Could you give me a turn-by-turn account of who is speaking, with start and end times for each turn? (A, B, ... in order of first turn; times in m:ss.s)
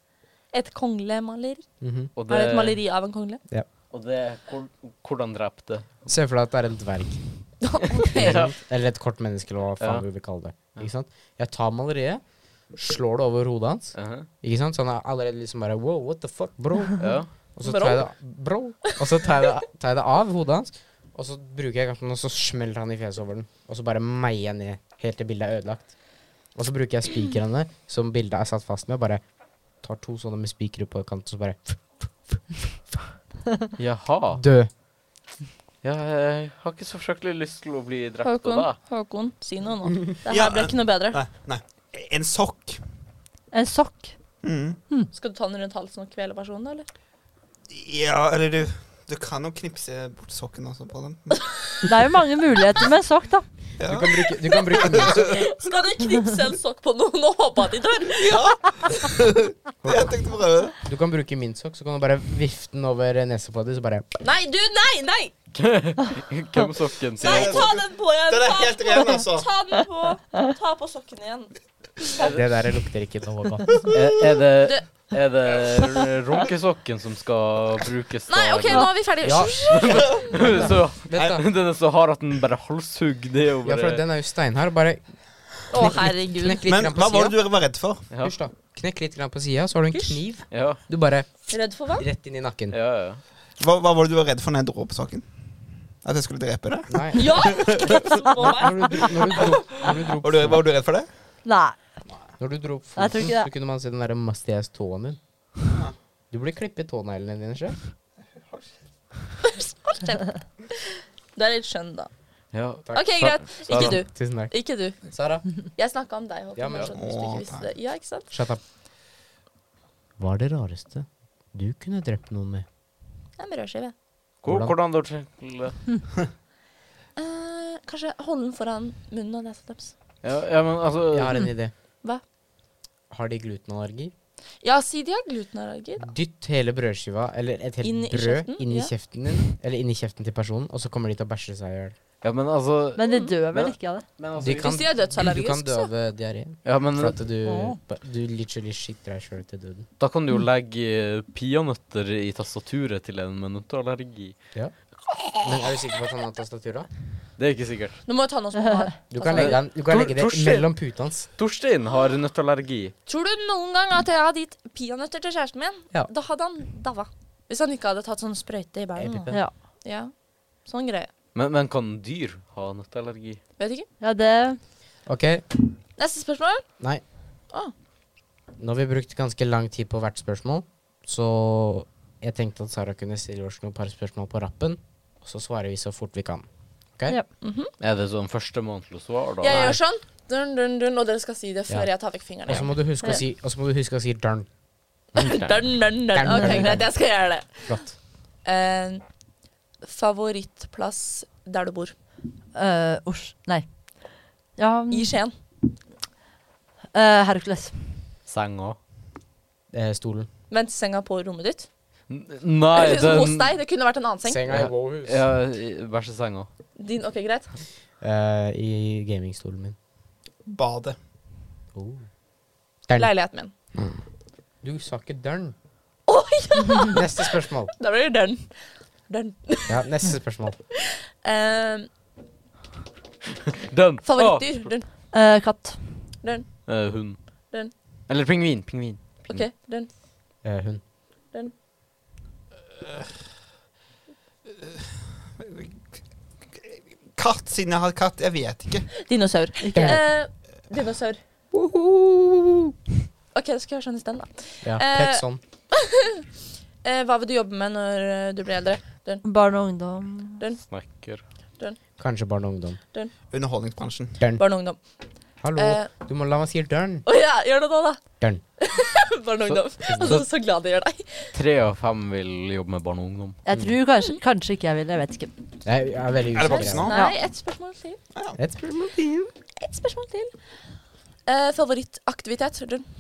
0:00.5-0:01.7 A
0:01.8-0:02.1 B
0:02.2-0:02.8 C
0:02.3-0:03.4 A
0:03.9-0:06.0 C
0:06.1-0:07.2 B
0:07.6-0:08.4 A
0:08.0-0:08.6 C
0:08.1-0:26.0 B
0:09.8-0:10.1 C
0:13.9-0:14.3 C
0:17.0-0:17.3 C
0:17.6-0:18.1 A
0:18.9-0:19.3 A
0:26.5-0:29.3 B
0:29.8-0:32.4 B
0:33.8-0:34.4 C
0:34.3-0:34.7 B
0:35.8-0:38.8 C
0:38.2-0:41.2 A
0:40.3-0:42.8 D
0:43.5-0:44.2 E
0:44.4-0:44.8 D
0:45.1-0:46.9 A
0:47.7-0:51.6 D
0:51.9-0:53.5 E
0:53.8-0:55.4 D
0:53.8-0:55.4 B
0:54.5-0:58.4 A
0:58.2-1:00.8 D
0:59.8-1:00.2 B
1:00.8-1:04.0 B
1:04.2-1:05.3 A
1:05.5-1:07.7 C
1:07.2-1:09.5 D
1:07.2-1:12.2 A
1:12.2-1:12.4 C
1:12.2-1:13.7 B
1:13.9-1:24.0 C
1:14.6-1:14.9 A
1:18.3-1:20.3 A
1:19.2-1:21.4 B
1:21.1-1:21.4 D
1:23.6-1:27.4 B
1:25.7-1:26.6 A
1:26.7-1:28.1 D
1:28.1-1:28.4 C
1:28.2-1:32.8 B
1:29.9-1:30.2 A
1:30.5-1:30.8 C
1:31.5-1:32.0 A
1:32.7-1:33.2 C
1:33.6-1:35.3 D
1:36.0-1:38.0 D
1:36.9-1:40.6 B
1:37.1-1:39.1 A
1:39.4-1:41.1 D
1:41.4-1:41.9 E
1:42.4-1:45.2 B
1:43.0-1:43.5 E
1:46.3-1:47.8 B
1:49.4-1:50.8 A
1:51.4-1:52.1 A
1:52.5-1:54.1 C
1:52.9-1:55.0 A
1:53.7-1:55.4 B
1:55.7-1:58.3 A
1:56.6-1:56.9 B
1:56.9-1:57.7 D
1:58.3-1:58.6 B
2:00.2-2:02.7 B
2:03.4-2:03.9 A
2:04.4-2:05.8 C
2:04.4-2:04.8 B
2:07.2-2:10.0 A
2:10.2-2:11.4 C
2:11.1-2:11.7 B
2:13.1-2:14.1 B
2:14.6-2:16.1 A
2:16.0-2:22.0 B
2:17.8-2:18.9 A
2:22.2-2:24.8 C
2:23.0-2:24.0 E
2:23.0-2:23.3 A
2:24.4-2:29.9 B
2:24.6-2:25.9 A
2:26.6-2:27.2 C
2:27.4-2:27.8 E
2:30.0-2:34.4 C
2:35.4-2:36.9 B
2:37.4-2:38.0 C
2:38.1-2:39.6 A
2:39.1-2:41.3 B
2:39.3-2:43.0 C
2:43.1-2:50.1 A
2:49.0-2:49.4 B
2:50.6-2:51.1 A
2:51.3-2:53.4 C
2:53.6-2:53.9 A
2:54.0-2:54.6 E
2:55.1-2:55.5 B
2:56.0-2:56.8 A
2:58.6-3:07.2 B
3:07.4-3:07.7 A
3:07.8-3:09.7 C
3:09.4-3:13.0 A
3:09.4-3:09.8 B
3:11.7-3:14.5 B
3:15.1-3:18.0 B
3:15.2-3:19.0 A
3:16.2-3:16.7 E
3:19.8-3:22.0 A
3:22.5-3:25.2 E
3:24.9-3:25.3 A
3:26.9-3:28.0 E
3:28.3-3:28.8 C
3:29.7-3:30.3 B
3:30.5-3:31.7 A
3:32.1-3:33.6 C
3:32.7-3:34.4 A
3:34.2-3:35.3 B
3:34.5-3:36.5 C
3:36.8-3:37.5 A
3:38.0-3:39.8 B
3:40.5-3:41.0 D
3:41.8-3:42.1 B
3:42.9-3:43.1 B
3:43.0-3:43.5 A
3:43.7-3:44.0 B
3:44.6-3:45.6 B
3:46.1-3:48.6 A
3:46.9-3:47.7 B
3:49.1-3:49.8 A
3:49.7-3:50.6 B
3:51.2-3:51.9 A
3:53.7-3:54.8 C
3:54.0-3:54.9 A
3:54.9-3:56.2 E
3:56.2-3:56.8 A
3:56.7-3:57.5 C
3:58.1-3:59.5 C
3:59.3-3:59.9 A
4:00.4-4:00.8 B
4:05.4-4:06.0 D
4:06.5-4:08.9 D
4:09.0-4:11.2 A
4:09.6-4:10.0 E
4:09.7-4:10.0 B
4:11.7-4:12.6 E
4:13.3-4:16.1 A
4:14.6-4:15.4 B
4:16.8-4:19.2 A
4:19.2-4:20.4 E
4:20.4-4:21.0 A
4:20.6-4:21.2 C
4:22.0-4:22.8 B
4:23.3-4:24.2 D
4:24.2-4:24.4 B
4:24.3-4:24.9 A
4:25.4-4:27.0 B
4:25.6-4:25.9 A
4:27.0-4:31.3 A
4:29.4-4:30.2 B
4:30.0-4:30.3 C
4:31.3-4:33.4 C
4:33.4-4:35.3 E
4:35.6-4:36.9 B
4:36.3-4:37.0 D
4:36.5-4:38.0 A
4:36.9-4:37.2 E
4:38.4-4:39.3 B
4:39.6-4:40.3 A
4:41.3-4:42.9 A